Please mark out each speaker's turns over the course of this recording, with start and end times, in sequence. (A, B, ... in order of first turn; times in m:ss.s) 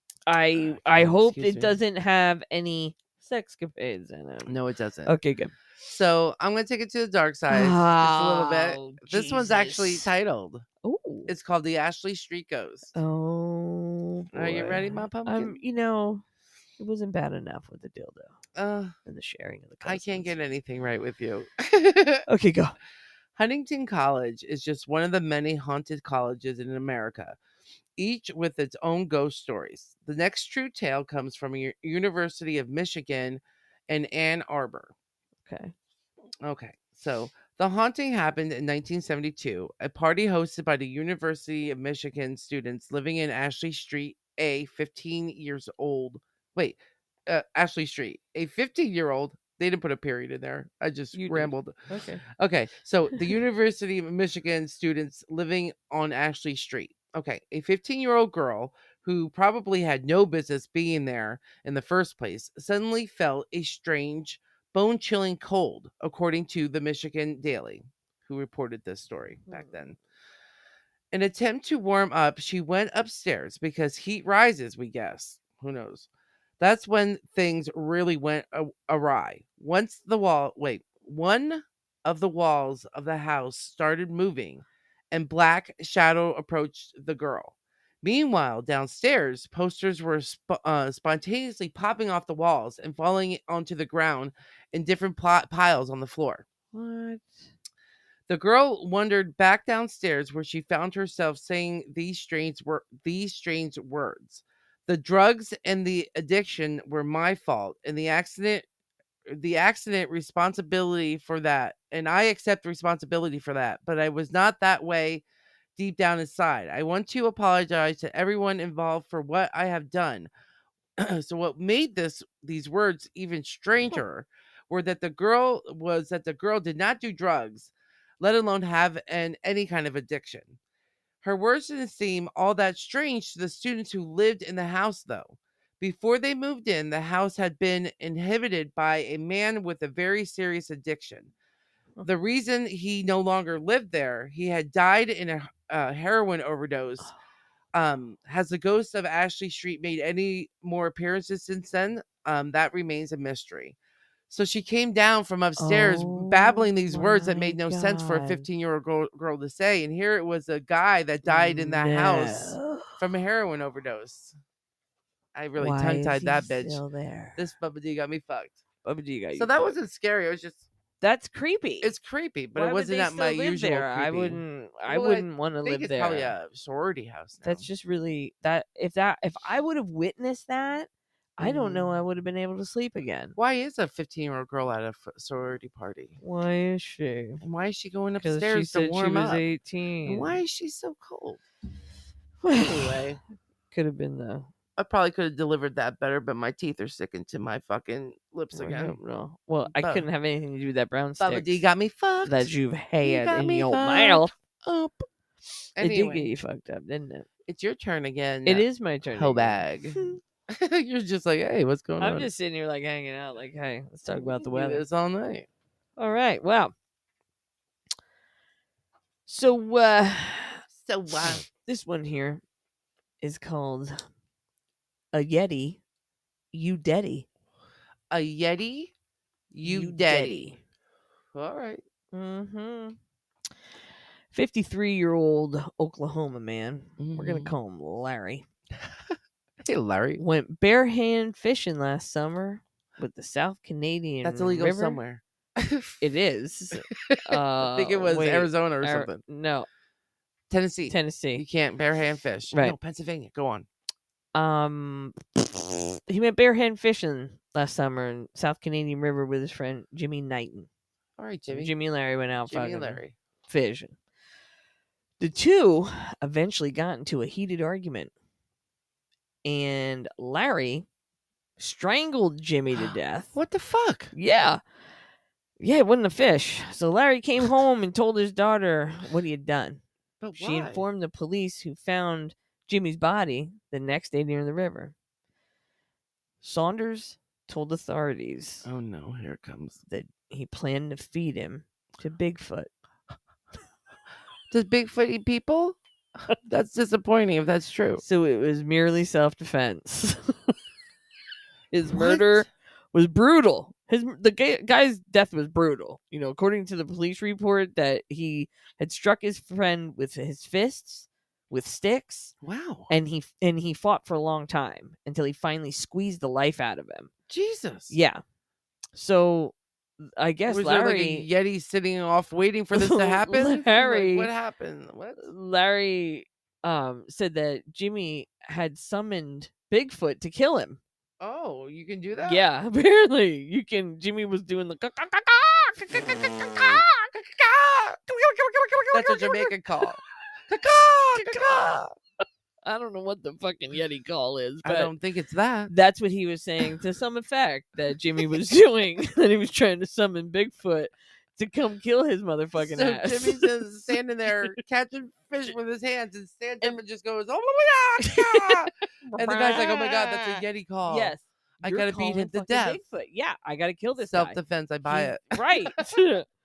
0:00.3-0:05.5 A
0:00.5-0:01.8 B
0:04.5-0:05.1 B
0:05.8-0:10.6 B
0:07.5-0:10.1 A
0:10.8-0:11.3 A
0:11.3-0:12.9 B
0:12.9-0:16.2 A
0:14.3-0:15.6 B
0:16.8-0:18.4 A
0:18.6-0:18.9 B
0:19.0-0:20.3 A
0:19.8-0:22.2 B
0:22.3-0:22.7 A
0:23.4-0:27.4 B
0:28.0-0:34.9 B
0:35.5-0:35.7 A
0:36.4-1:10.0 B
0:51.1-0:52.2 A
1:09.5-1:09.8 A
1:11.1-1:16.1 B
1:16.6-1:36.4 B
1:36.7-1:37.3 A
1:38.3-1:48.6 B
1:49.3-1:55.2 B
1:55.8-2:00.3 B
2:01.0-2:10.6 B
2:11.2-2:21.3 B
2:22.0-2:27.1 B
2:27.7-2:33.8 B
2:34.3-2:44.4 B
2:35.6-2:38.4 A
2:41.2-2:43.0 A
2:45.4-2:46.8 B
2:45.6-2:47.4 A
2:47.4-2:48.6 B
2:48.8-2:49.7 A
2:49.4-2:50.7 B
2:51.0-2:51.9 A
2:51.8-2:57.7 B
2:52.5-2:56.4 A
2:57.4-3:03.4 A
3:01.4-3:02.0 B
3:03.4-3:06.2 B
3:06.2-3:07.4 A
3:07.4-3:09.4 B
3:08.2-3:10.4 A
3:10.0-3:11.4 B
3:12.4-3:13.1 A
3:12.5-3:13.2 B
3:13.7-3:14.5 A
3:14.8-3:19.0 B
3:18.5-3:21.6 A
3:19.6-3:20.1 B
3:21.2-3:22.5 B
3:22.2-3:24.3 A
3:23.0-3:25.0 B
3:25.8-3:26.3 B
3:25.8-3:27.2 A
3:27.5-3:32.3 B
3:28.4-3:30.2 A
3:32.0-3:34.8 A
3:34.1-3:35.5 B
3:36.0-3:36.7 A
3:39.3-3:40.6 A
3:40.8-3:41.4 B
3:41.2-3:42.4 A
3:43.2-3:44.0 A
3:45.1-3:45.8 A
3:46.5-3:47.2 A
3:48.1-3:48.9 B
3:49.5-3:50.5 B
3:49.6-3:50.6 A
3:51.3-3:51.8 B
3:52.1-3:53.0 A
3:54.3-3:58.4 A
3:57.0-3:57.5 B
3:58.8-3:59.1 B
3:59.6-4:00.2 B
4:00.2-4:05.0 A
4:04.2-4:06.0 B
4:06.0-4:09.7 A
4:06.9-4:09.2 B
4:10.5-4:13.7 B
4:10.9-4:11.4 A
4:12.5-4:12.8 A
4:14.3-4:20.7 A
4:21.2-4:21.7 B
4:21.5-4:24.0 A
4:22.5-4:23.2 B
4:25.2-4:28.1 A
4:29.4-4:30.9 A
4:31.6-4:33.4 A
4:32.7-4:34.1 B
4:34.1-4:34.6 A
4:35.6-4:39.8 A
4:40.2-4:40.8 B
4:40.4-4:44.9 A
4:46.4-4:48.7 A
4:48.6-4:49.8 B
4:49.9-4:52.7 A
4:54.5-4:55.8 B
4:56.4-4:58.0 B
4:58.0-5:00.5 A
5:01.7-5:12.3 A
5:01.9-5:02.4 B
5:12.4-5:12.9 B
5:12.9-5:17.1 A
5:17.3-5:18.0 B
5:17.9-5:18.2 A
5:18.9-5:21.3 A
5:20.5-5:25.3 B
5:22.7-5:24.3 A
5:25.2-5:30.8 A
5:31.2-5:32.4 B
5:32.2-5:39.5 A
5:38.9-5:41.8 B
5:41.1-5:41.9 A
5:42.6-5:44.9 A
5:44.6-5:45.7 B
5:45.7-5:53.6 A
5:52.6-6:02.8 B
5:58.0-6:06.2 A
6:04.0-6:05.9 B